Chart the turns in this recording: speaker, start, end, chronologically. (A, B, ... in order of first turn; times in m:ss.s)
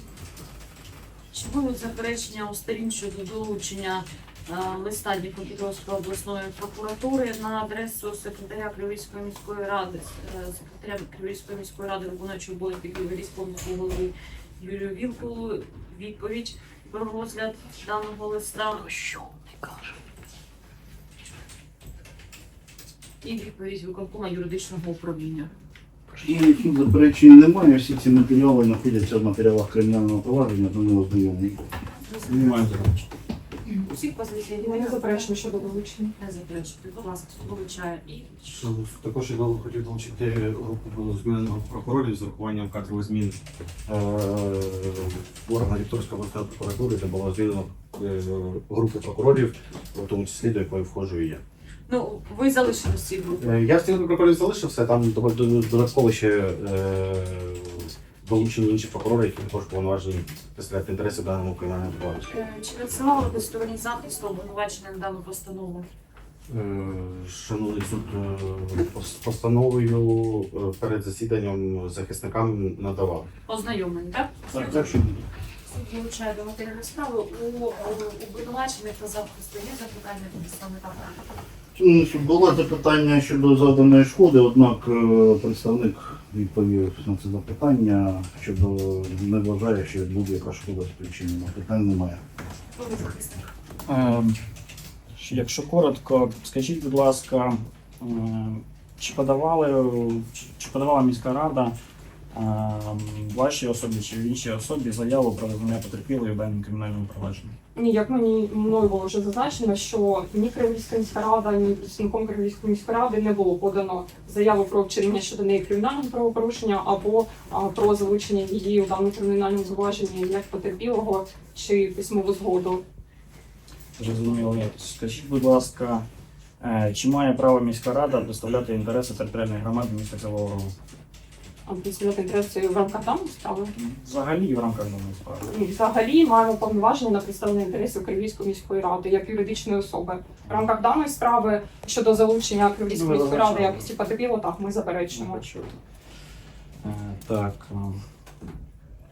0:01.3-0:18.9 A
0:23.2-0:25.5 A
0:26.2-0:31.6 B
0:32.1-0:32.9 A
0:32.3-0:32.9 C
0:33.8-0:35.5 A
0:34.6-0:36.1 D
0:36.2-0:38.4 A
0:38.4-0:51.4 E
0:51.9-0:53.6 A
0:53.4-1:02.3 E
1:02.3-1:05.9 A
1:06.5-1:13.3 E
1:13.5-1:15.0 A
1:14.5-1:15.2 B
1:15.7-1:21.2 A
1:21.8-1:32.2 B
1:32.7-1:33.5 A
1:33.9-1:34.4 C
1:35.2-1:41.8 C
1:42.3-1:47.6 C
1:47.7-2:02.8 D
2:04.0-2:06.1 C
2:06.6-2:10.7 C
2:11.6-2:13.7 D
2:13.8-2:15.4 C
2:15.4-2:25.4 D
2:22.9-2:23.8 C
2:25.1-2:25.8 C
2:26.8-2:28.0 C